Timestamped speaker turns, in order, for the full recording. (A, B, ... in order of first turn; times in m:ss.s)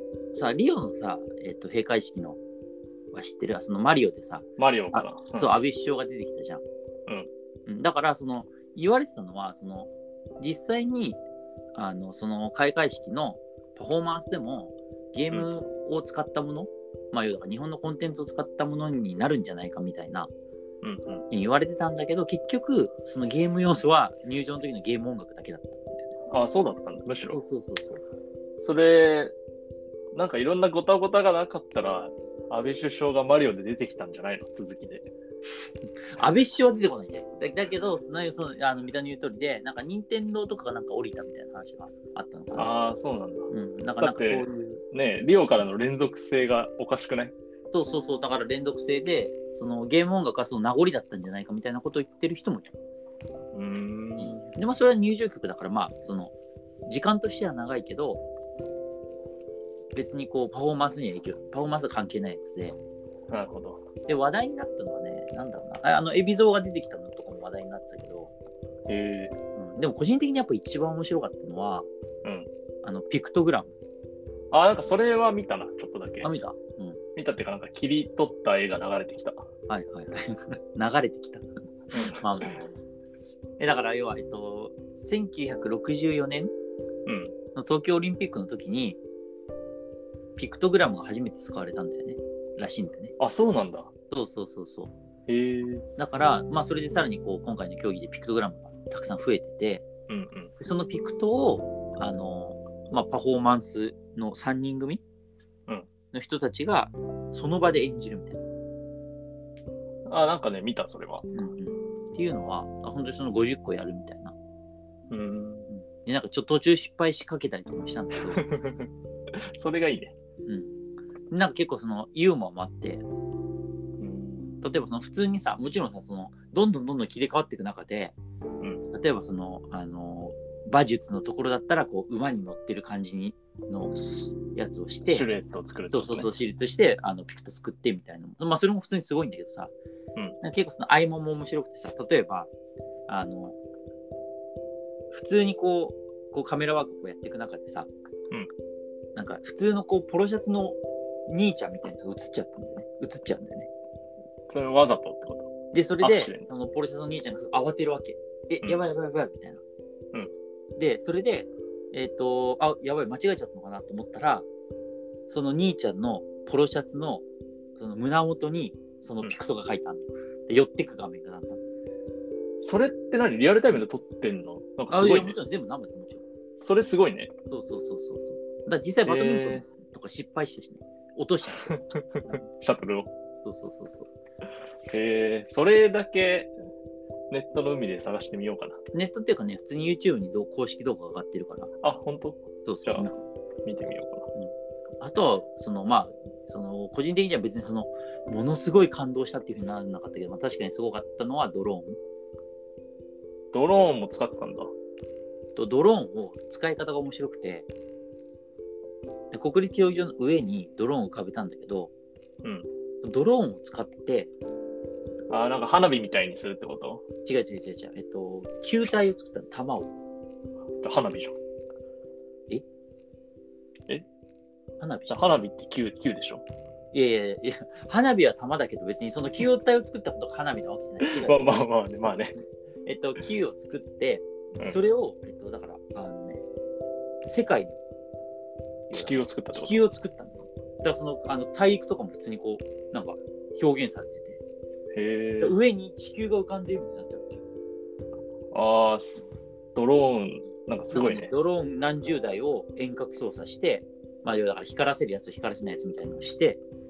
0:00.3-0:02.4 A
0:03.1-0:06.6 A
0:04.6-0:05.6 B
0:07.7-0:11.2 A
0:11.8-0:20.3 A
0:20.8-0:21.2 B
0:21.3-0:26.1 A
0:26.3-0:27.4 B
0:27.3-0:28.0 A
0:28.6-0:29.3 B
0:30.1-0:35.1 B
0:36.1-0:42.7 A
0:42.6-0:47.4 B
0:43.5-0:44.8 A
0:47.7-0:52.7 A
0:53.5-0:54.4 B
0:54.2-0:56.3 A
0:56.8-0:58.2 A
0:59.9-1:02.8 A
1:03.3-1:03.8 B
1:04.1-1:08.3 A
1:08.9-1:09.4 B
1:09.6-1:11.9 A
1:12.2-1:12.5 B
1:12.8-1:13.8 A
1:14.5-1:16.3 B
1:16.2-1:17.0 A
1:17.2-1:19.5 B
1:19.7-1:21.5 A
1:21.9-1:22.2 B
1:22.0-1:22.7 A
1:23.6-1:26.5 A
1:27.1-1:27.4 B
1:27.6-1:29.0 A
1:30.4-1:33.2 A
1:33.2-1:33.9 B
1:34.1-1:34.9 A
1:35.3-1:35.8 B
1:36.0-1:39.8 A
1:40.1-1:40.5 B
1:40.6-1:45.0 A
1:46.1-1:48.4 A
1:50.1-1:51.3 B
1:51.3-1:54.4 A
1:55.1-1:55.7 B
1:55.7-1:58.5 A
1:58.3-1:58.9 B
1:59.6-2:00.2 B
2:00.4-2:00.8 A
2:01.3-2:03.1 A
2:04.0-2:04.6 B
2:04.6-2:08.2 A
2:08.9-2:15.3 A
2:14.0-2:14.4 B
2:15.1-2:16.3 B
2:15.9-2:19.7 A
2:20.4-2:22.5 A
2:23.1-2:23.6 A
2:25.1-2:27.9 A
2:29.2-2:33.7 A
2:34.5-2:35.5 B
2:35.7-2:39.6 A
2:36.0-2:36.5 B
2:40.8-2:44.5 A
2:45.3-2:47.2 A
2:47.8-2:51.6 A
2:52.6-2:55.4 B
2:54.9-2:56.2 A
2:56.6-2:57.3 B
2:57.5-3:01.7 A
2:59.0-2:59.6 B
3:01.7-3:02.0 B
3:02.6-3:03.1 B
3:03.4-3:04.1 A
3:04.9-3:06.5 B
3:07.3-3:08.8 B
3:08.9-3:11.7 A
3:11.8-3:13.1 B
3:12.6-3:13.1 A
3:13.6-3:14.3 B
3:14.4-3:22.0 A
3:23.5-3:24.7 B
3:25.6-3:27.7 A
3:29.3-3:31.9 A
3:33.0-3:34.3 A
3:35.3-3:37.1 B
3:37.2-3:39.9 A
3:40.8-3:41.4 B
3:44.8-3:45.4 A
3:45.1-3:46.4 B
3:46.9-3:51.5 A
3:51.0-3:52.4 B
3:52.9-3:56.4 A
3:57.2-3:57.8 A
3:58.9-3:59.8 B
3:58.9-4:04.4 A
4:04.9-4:05.6 B
4:05.4-4:07.4 A
4:08.5-4:11.3 B
4:10.9-4:16.6 A